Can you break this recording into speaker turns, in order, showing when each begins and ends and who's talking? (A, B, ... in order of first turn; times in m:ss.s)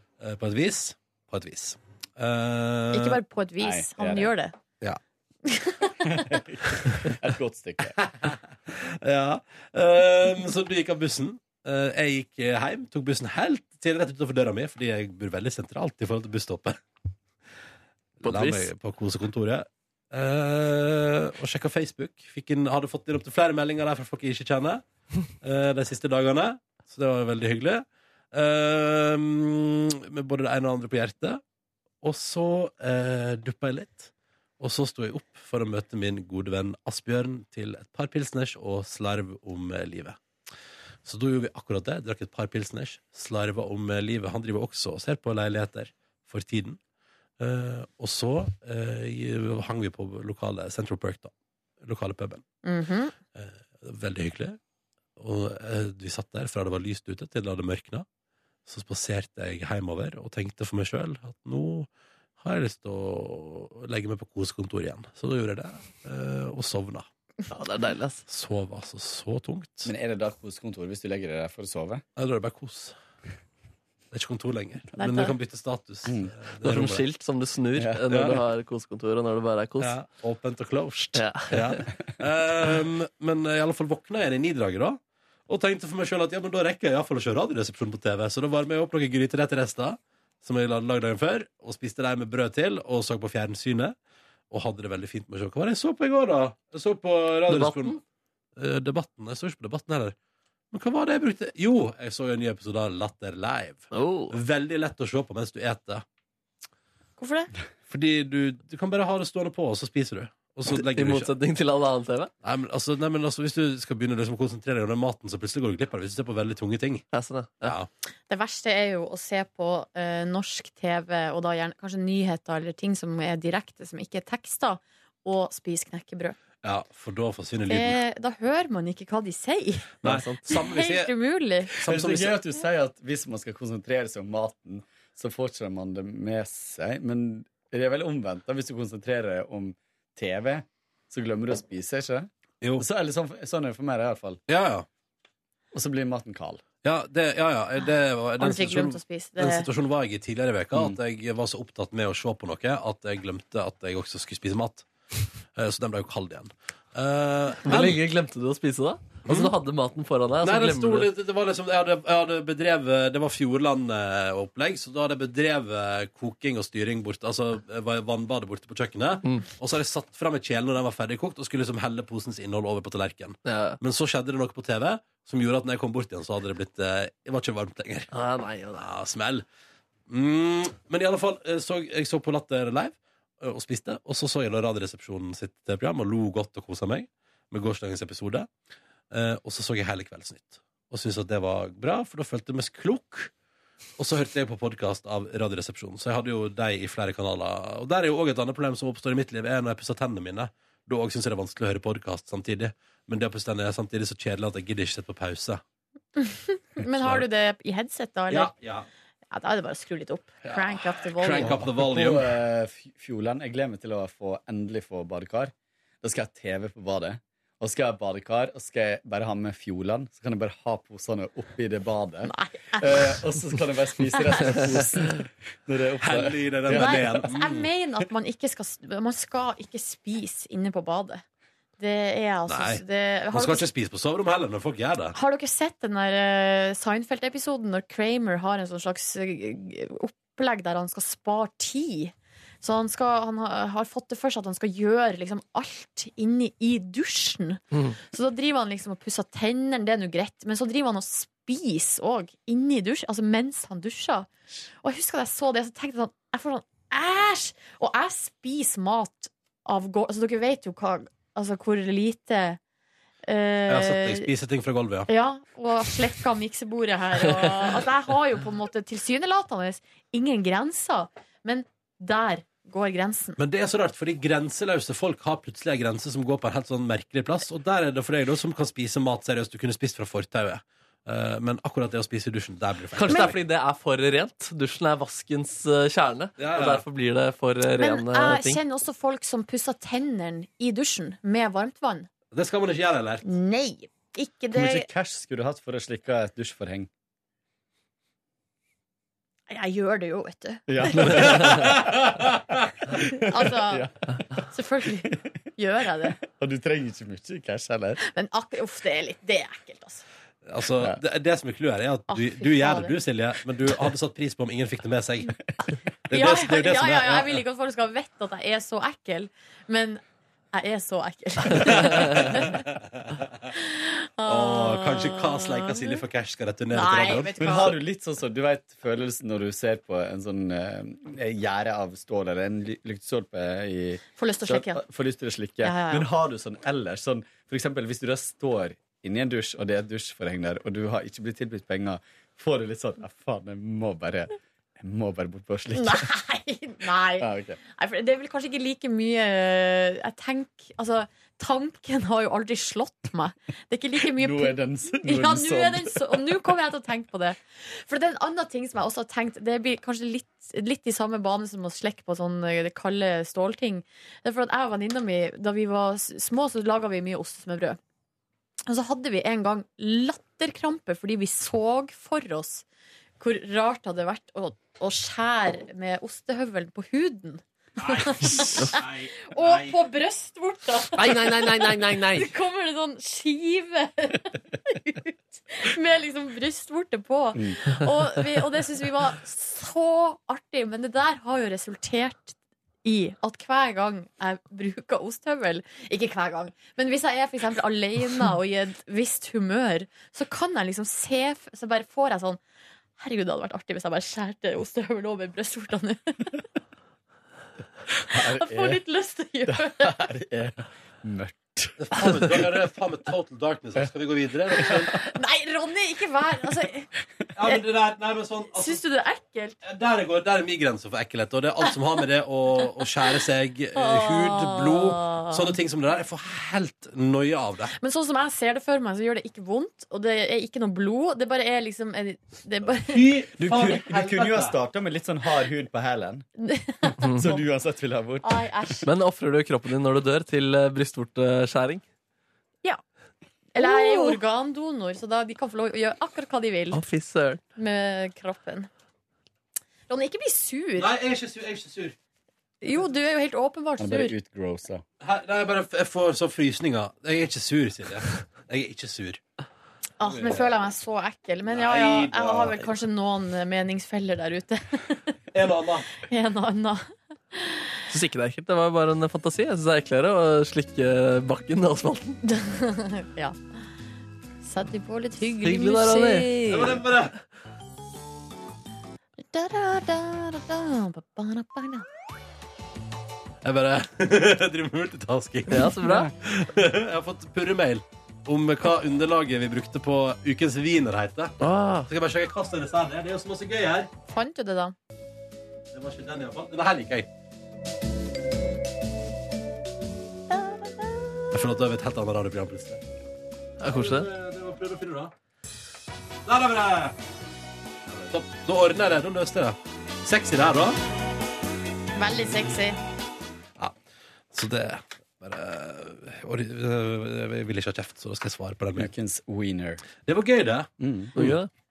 0:00.2-0:03.2 A
0:02.9-0:04.5 B
0:03.6-0:04.3 C
0:05.4-0:06.4 B
0:06.0-0:08.0 C
0:08.2-0:16.8 A
0:18.2-0:18.7 D
0:18.2-0:24.8 A
0:25.4-0:31.4 A
0:32.0-0:40.2 A
0:41.0-0:46.8 A
0:47.4-0:52.4 A
0:52.6-0:53.1 B
0:53.3-0:54.6 A
0:55.2-0:58.0 A
0:58.6-1:07.1 A
1:07.5-1:08.2 D
1:08.3-1:09.9 A
1:09.8-1:12.0 C
1:12.2-1:13.0 A
1:14.1-1:17.0 A
1:15.0-1:15.3 B
1:16.0-1:16.3 C
1:16.6-1:19.9 D
1:17.8-1:18.0 C
1:18.1-1:18.4 A
1:19.8-1:34.0 A
1:21.1-1:21.8 D
1:34.5-1:38.0 A
1:37.5-1:38.0 D
1:38.6-1:40.2 A
1:40.7-1:46.0 A
1:43.9-1:44.4 D
1:47.2-1:47.5 B
1:47.9-1:51.3 A
1:50.7-1:52.3 D
1:52.4-1:57.0 A
1:57.1-1:57.7 D
1:57.6-1:57.9 A
1:58.3-2:06.4 B
2:06.6-2:08.0 A
2:07.7-2:10.0 B
2:10.0-2:10.5 D
2:10.0-2:11.1 A
2:10.5-2:11.7 B
2:11.8-2:12.4 A
2:11.8-2:24.4 C
2:24.5-2:24.8 A
2:25.7-2:26.6 C
2:26.8-2:34.9 A
2:28.4-2:29.7 B
2:35.5-2:38.0 A
2:37.6-2:41.1 D
2:39.2-2:39.5 A
2:40.4-2:58.1 A
2:53.4-2:53.8 D
2:58.1-2:58.9 D
2:58.7-2:59.4 A
3:00.1-3:08.5 A
3:09.1-3:13.3 A
3:14.0-3:25.6 A
3:26.2-3:28.5 B
3:26.9-3:27.2 A
3:28.3-3:28.9 A
3:29.3-3:31.6 B
3:30.4-3:32.4 A
3:31.4-3:47.3 C
3:42.2-3:43.2 B
3:44.1-3:44.6 B
3:46.0-3:47.7 A
3:46.7-3:51.2 B
3:51.8-3:53.6 B
3:52.5-3:55.2 A
3:55.1-4:14.3 B
4:14.8-4:22.6 B
4:23.2-4:24.3 B
4:23.7-4:25.1 A
4:25.1-4:33.4 B
4:33.4-4:43.4 A
4:42.9-4:48.6 D
4:46.4-4:46.8 A
4:47.8-4:52.1 B
4:52.3-4:53.2 A
4:53.2-4:54.9 B
4:54.5-4:56.9 C
4:59.5-5:01.3 B
5:00.7-5:01.8 C
5:01.1-5:02.7 A
5:02.9-5:04.0 C
5:03.1-5:03.8 B
5:04.5-5:06.2 B
5:06.2-5:08.0 C
5:08.0-5:10.0 B
5:10.4-5:15.4 A
5:12.1-5:13.0 B
5:16.1-5:17.4 A
5:16.1-5:20.0 B
5:20.5-5:22.7 B
5:21.6-5:23.2 A
5:23.5-5:26.0 B
5:24.2-5:27.5 A
5:26.7-5:27.8 B
5:27.4-5:46.1 C
5:34.2-5:34.8 B
5:35.6-5:36.1 B
5:45.7-6:07.8 B
5:47.2-5:47.6 C
5:54.1-5:56.4 C
6:08.7-6:12.6 B
6:13.2-6:42.4 B
6:17.8-6:19.8 A
6:21.0-6:22.3 D
6:27.3-6:27.6 C
6:43.0-6:46.4 B
6:48.0-6:48.8 C
6:48.1-6:50.0 B
6:49.5-6:52.3 C
6:51.8-6:54.9 A
6:54.6-6:56.9 B
6:57.4-6:58.8 A
6:58.5-6:59.6 B
6:59.6-7:07.7 A
7:03.7-7:05.5 B
7:07.8-7:13.0 B
7:12.7-7:14.5 A
7:13.4-7:16.2 C
7:16.4-7:17.4 B
7:17.0-7:18.4 C
7:18.2-7:18.9 B
7:18.8-7:21.8 D
7:23.5-7:26.8 B
7:23.6-7:24.1 D
7:26.7-7:27.4 D
7:27.6-7:28.7 B
7:29.9-7:30.9 B
7:30.8-7:31.9 A
7:32.6-7:34.1 B
7:33.8-7:34.8 C
7:35.0-7:39.2 A
7:40.0-7:45.1 B
7:40.0-7:40.5 A
7:41.5-7:42.7 A
7:45.3-7:45.9 A
7:46.0-7:47.8 B
7:47.9-7:52.2 D
7:52.2-7:53.4 B
7:54.4-7:56.7 B
7:55.4-7:56.8 D
7:56.5-7:57.2 A
7:59.3-8:01.8 B
8:03.4-8:13.9 A
8:05.5-8:06.1 D
8:11.4-8:11.9 D
8:14.1-8:14.7 B
8:15.7-8:17.1 A
8:20.3-8:21.0 B
8:21.3-8:22.8 A
8:23.6-8:24.1 D
8:23.6-8:25.1 A
8:26.2-8:27.0 A
8:27.8-8:30.8 A
8:32.0-8:32.8 B
8:34.3-8:38.9 A
8:38.8-8:39.8 C
8:40.0-8:41.4 A
8:40.8-8:41.1 C
8:41.2-8:41.5 D